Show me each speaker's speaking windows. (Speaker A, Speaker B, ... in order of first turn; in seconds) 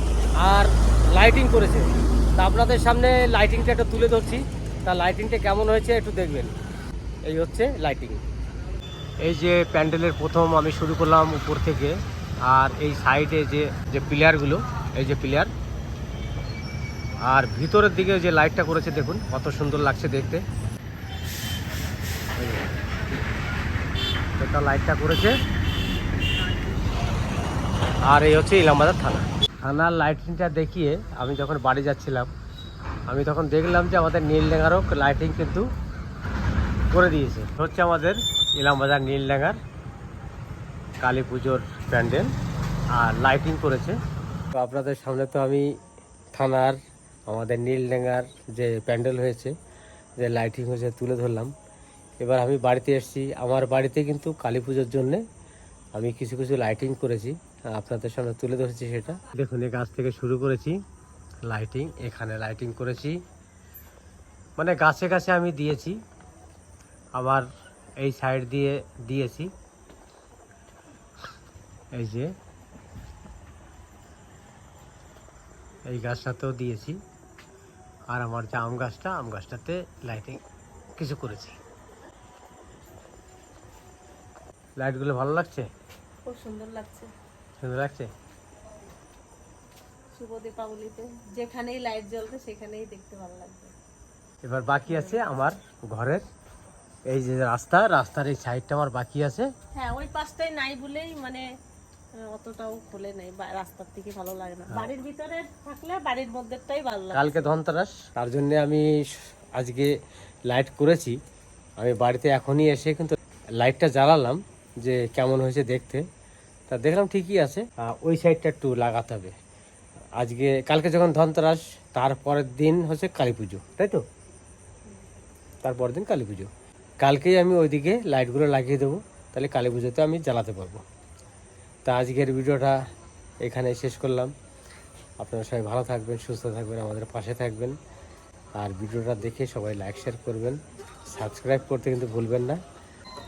Speaker A: 0.4-6.5, 7.2-8.2, 9.2-15.5, 17.2-20.4, 22.3-22.7, 24.4-25.4, 28.1-32.3, 33.1-35.7, 36.9-39.6, 41.0-42.3, 42.9-44.0, 44.5-45.7, 46.3-49.5, 50.2-51.5, 52.2-55.2, 55.9-60.8, 61.4-63.2, 64.6-66.0, 67.2-67.5, 68.0-69.5, 71.9-72.3, 75.9-77.0, 78.1-80.4, 81.0-81.6, 84.8-85.7, 87.6-88.1, 94.4-96.2, 97.1-99.5, 107.1-108.9, 109.5-109.9, 110.5-111.2, 111.8-116.0, 116.7-119.3, 120.2-124.0, 125.6-130.8, 131.8-132.8, 133.4-134.3, 135.2-137.8, 138.6-142.6
Speaker B: 86.2-87.1, 90.1-93.7, 94.9-95.2, 99.7-101.4, 102.2-107.5